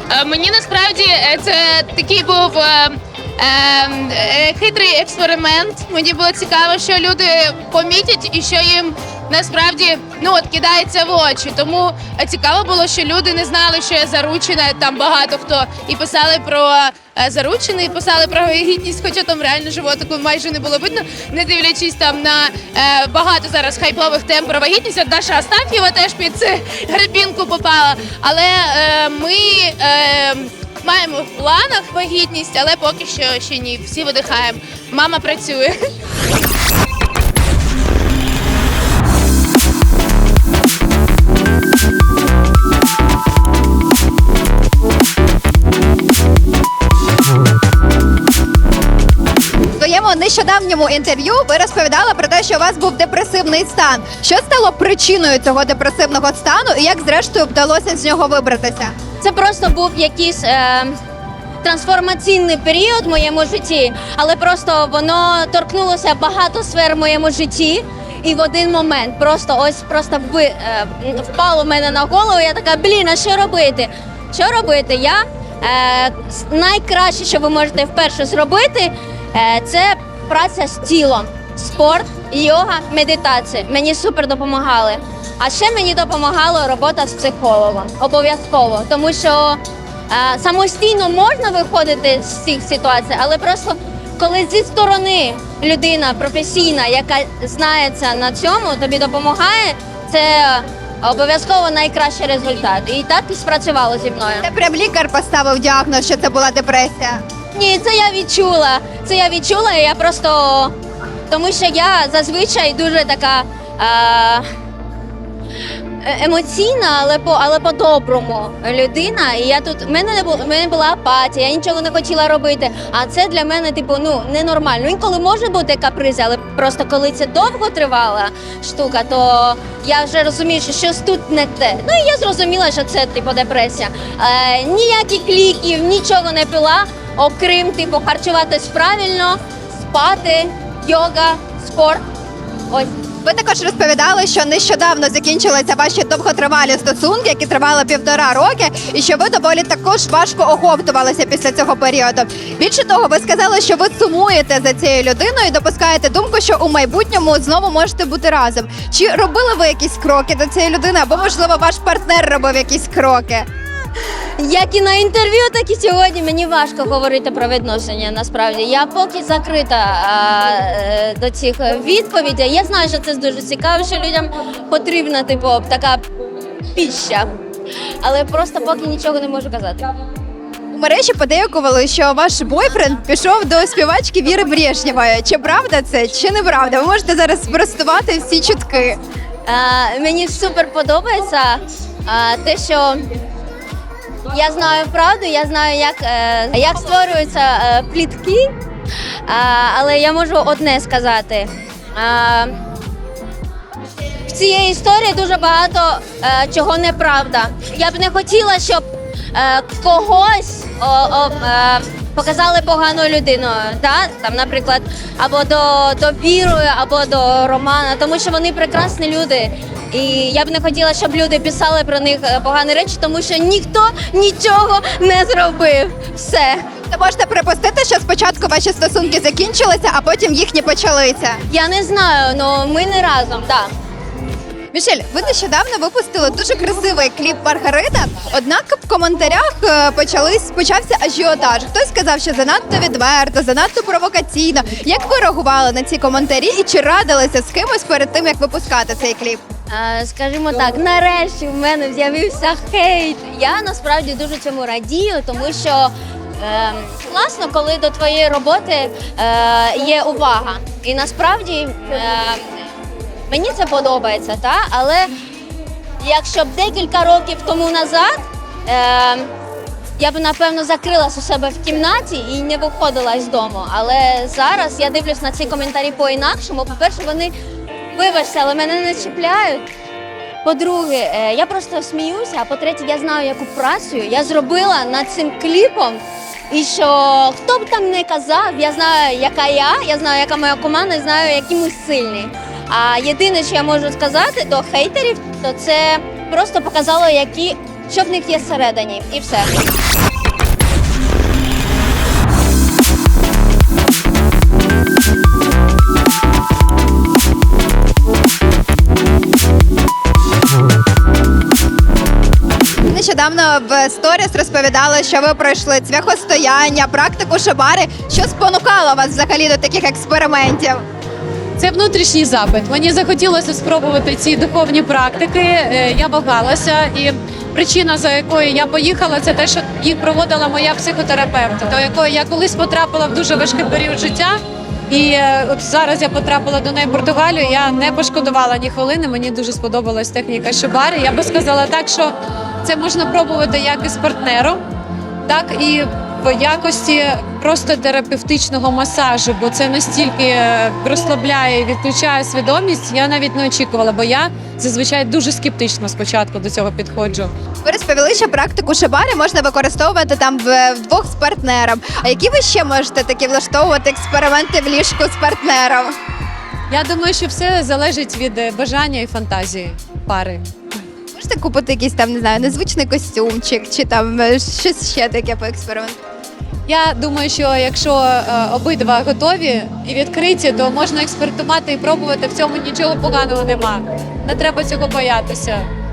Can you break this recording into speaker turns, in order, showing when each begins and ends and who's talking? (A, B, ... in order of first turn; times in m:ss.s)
0:00.1-0:35.8 A
0:49.8-0:59.0 B
0:59.2-1:01.0 C
1:01.6-1:44.5 C
1:44.4-1:47.2 B
1:47.5-1:50.8 C
1:51.3-1:54.5 C
1:56.0-2:22.0 C
2:23.2-2:43.5 B
2:44.4-2:56.0 C
2:56.7-2:57.3 C
2:58.0-2:59.9 C
3:00.7-3:09.0 B
3:09.5-3:13.1 C
3:14.3-3:18.5 C
3:19.3-3:22.6 C
3:24.3-3:46.7 C
3:46.9-3:51.4 B
3:51.5-3:53.7 C
3:54.7-4:09.4 B
4:09.7-4:22.5 C
4:23.3-4:25.1 C
4:26.0-4:29.3 C
4:30.0-4:37.3 C
4:37.9-4:39.7 C
4:40.4-4:59.5 C
5:12.9-5:20.8 B
5:21.6-5:44.6 D
5:45.3-5:57.3 D
5:57.6-6:06.0 B
6:06.7-6:10.5 D
6:11.1-6:16.0 B
6:16.7-6:25.7 D